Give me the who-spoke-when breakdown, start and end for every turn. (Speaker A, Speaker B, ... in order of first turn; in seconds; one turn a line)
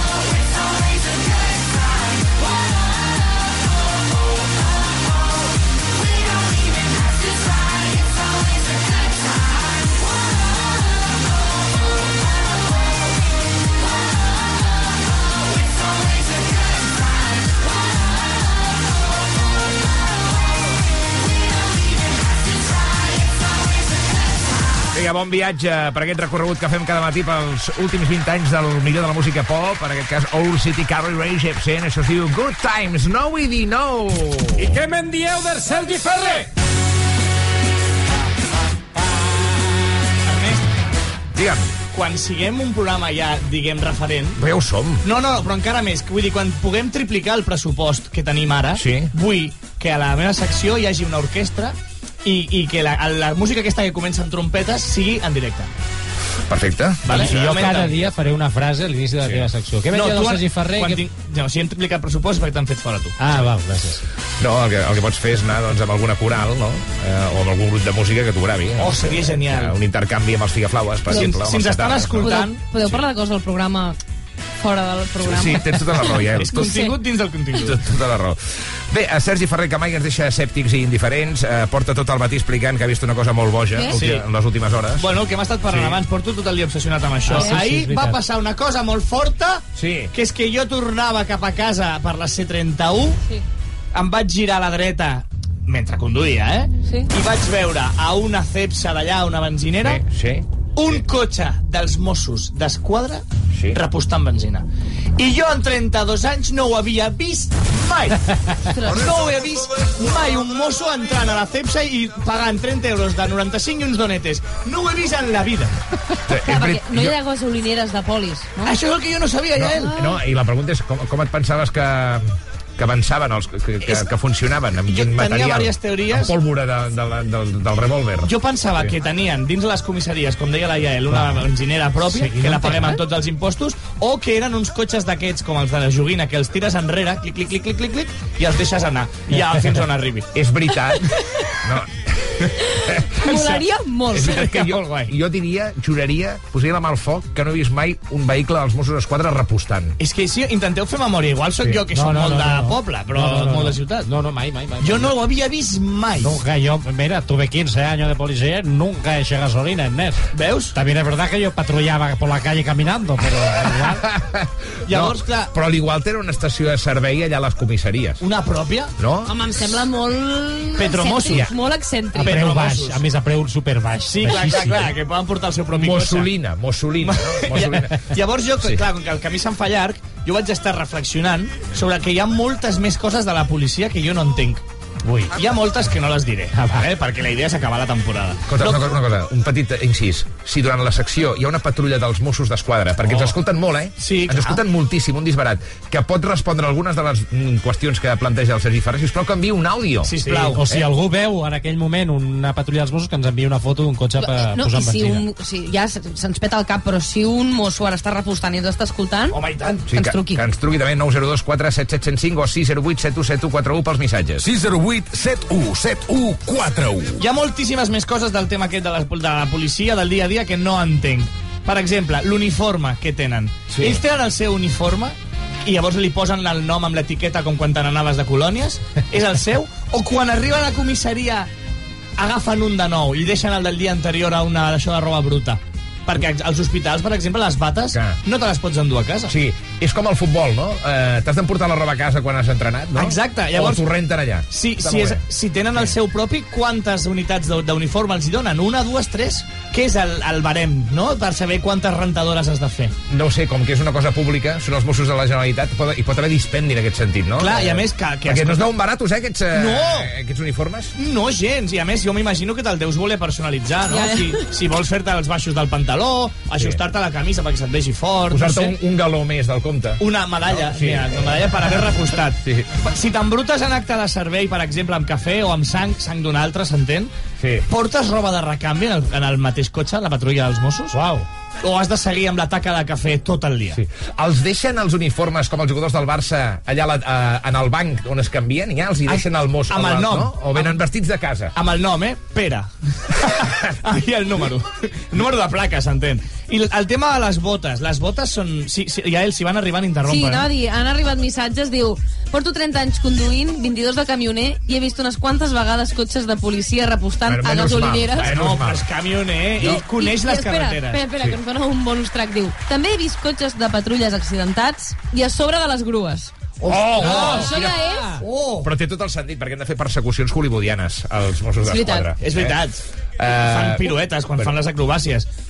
Speaker A: 24.9-34.8
Speaker B: 40.2-40.7
Speaker A: 41.3-41.7
Speaker B: 41.9-44.4
Speaker A: 44.4-45.0
Speaker B: 45.0-55.7
Speaker A: 48.8-49.1
Speaker A: 56.5-58.2
Speaker B: 57.0-58.0
Speaker C: 57.1-61.0
Speaker A: 59.2-59.5
Speaker B: 59.9-63.2
Speaker C: 63.2-64.0
Speaker A: 64.4-73.0
Speaker B: 68.8-69.7
Speaker B: 71.1-72.6
Speaker D: 71.1-71.4
Speaker D: 72.2-74.0
Speaker D: 74.6-76.9
Speaker A: 75.2-76.9
Speaker B: 76.3-77.8
Speaker A: 77.5-85.1
Speaker D: 83.7-84.0
Speaker B: 83.9-84.2
Speaker B: 85.0-93.2
Speaker A: 85.7-86.0
Speaker C: 87.3-88.2
Speaker D: 87.3-87.6
Speaker A: 89.8-90.1
Speaker B: 93.9-100.0
Speaker D: 96.8-97.1
Speaker A: 99.8-101.0
Speaker B: 100.8-104.7
Speaker A: 103.5-103.8
Speaker B: 105.2-108.3
Speaker D: 108.7-109.2
Speaker B: 108.8-115.8
Speaker A: 116.3-117.2
Speaker D: 116.4-118.8
Speaker B: 118.7-119.9
Speaker A: 119.6-128.9
Speaker D: 119.8-120.2
Speaker B: 124.9-126.3
Speaker B: 128.2-140.3
Speaker C: 131.1-131.5
Speaker C: 132.0-133.0
Speaker A: 140.3-141.1
Speaker A: 141.6-143.3
Speaker D: 143.2-144.7
Speaker B: 143.2-143.6
Speaker A: 144.1-150.0
Speaker B: 150.0-154.1
Speaker C: 151.9-155.1
Speaker B: 154.8-156.4
Speaker C: 156.2-160.2
Speaker B: 160.3-160.8
Speaker C: 160.7-164.0
Speaker A: 163.8-168.2
Speaker B: 164.9-165.5
Speaker B: 168.2-168.9
Speaker A: 169.0-169.3
Speaker D: 169.3-172.4
Speaker B: 170.8-171.5
Speaker C: 172.1-174.9
Speaker B: 172.2-173.1
Speaker B: 174.1-176.3
Speaker A: 175.7-177.9
Speaker B: 177.0-184.6
Speaker C: 185.1-185.3
Speaker B: 185.3-188.9
Speaker C: 186.5-186.9
Speaker A: 188.5-200.1
Speaker B: 194.0-194.6
Speaker B: 200.0-200.6
Speaker C: 200.2-205.2
Speaker D: 204.2-209.4
Speaker B: 209.3-209.9
Speaker A: 209.9-214.4
Speaker D: 209.9-210.4
Speaker E: 214.4-217.2
Speaker B: 217.2-231.5
Speaker A: 223.7-224.0
Speaker B: 232.2-239.3
Speaker A: 237.9-238.2
Speaker A: 239.3-245.2
Speaker B: 242.9-243.8
Speaker B: 244.5-252.9
Speaker A: 253.1-260.9
Speaker B: 257.4-258.7
Speaker B: 259.5-260.1
Speaker B: 261.0-268.7
Speaker D: 263.9-264.5
Speaker A: 268.3-271.5
Speaker B: 270.0-277.1
Speaker A: 272.4-272.7
Speaker A: 277.4-277.6
Speaker B: 277.7-281.0
Speaker C: 280.9-281.3
Speaker B: 281.6-283.8
Speaker A: 283.7-291.5
Speaker B: 289.1-290.8
Speaker B: 291.6-300.5
Speaker D: 300.1-308.3
Speaker A: 307.3-308.9
Speaker B: 308.2-311.0
Speaker A: 309.6-309.8
Speaker D: 309.6-316.3
Speaker B: 316.6-317.6
Speaker A: 316.6-317.8
Speaker D: 317.0-318.2
Speaker B: 318.2-318.7
Speaker A: 318.6-322.6
Speaker D: 321.7-322.1
Speaker B: 322.2-325.3
Speaker A: 323.2-324.6